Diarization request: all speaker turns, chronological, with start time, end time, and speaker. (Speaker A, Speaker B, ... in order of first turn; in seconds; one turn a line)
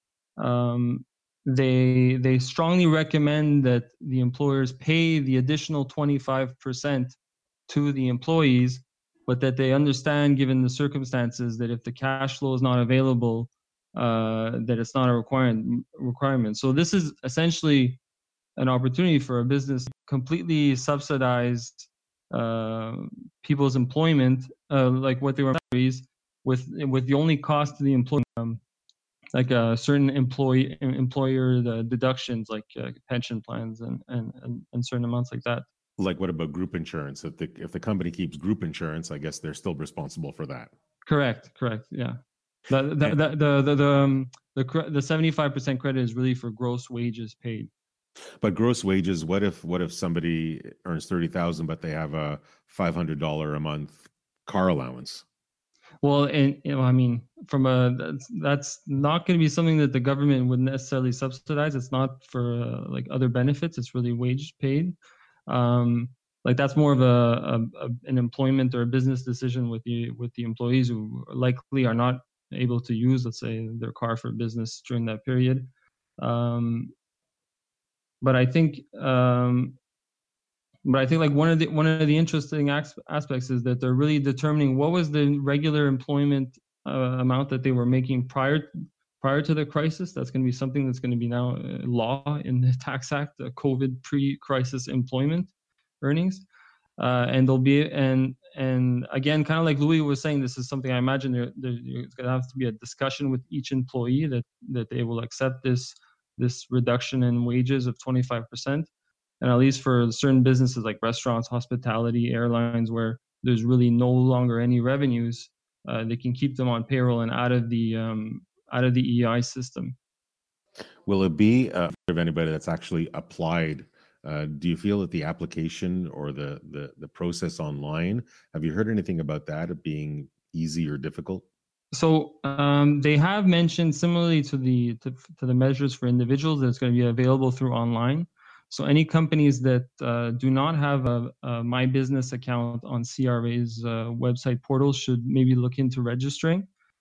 Speaker A: 0.4-7.2
Speaker A: 7.7-18.0
Speaker A: 18.6-28.6
Speaker A: 29.3-35.6
Speaker B: 36.0-40.7
Speaker A: 41.1-42.2
Speaker A: 42.7-47.7
Speaker B: 48.4-55.2
Speaker A: 56.0-65.0
Speaker A: 65.5-76.9
Speaker A: 78.2-79.8
Speaker A: 80.8-96.5
Speaker A: 97.0-108.9
Speaker A: 109.4-120.0
Speaker B: 121.1-131.4
Speaker A: 131.9-146.7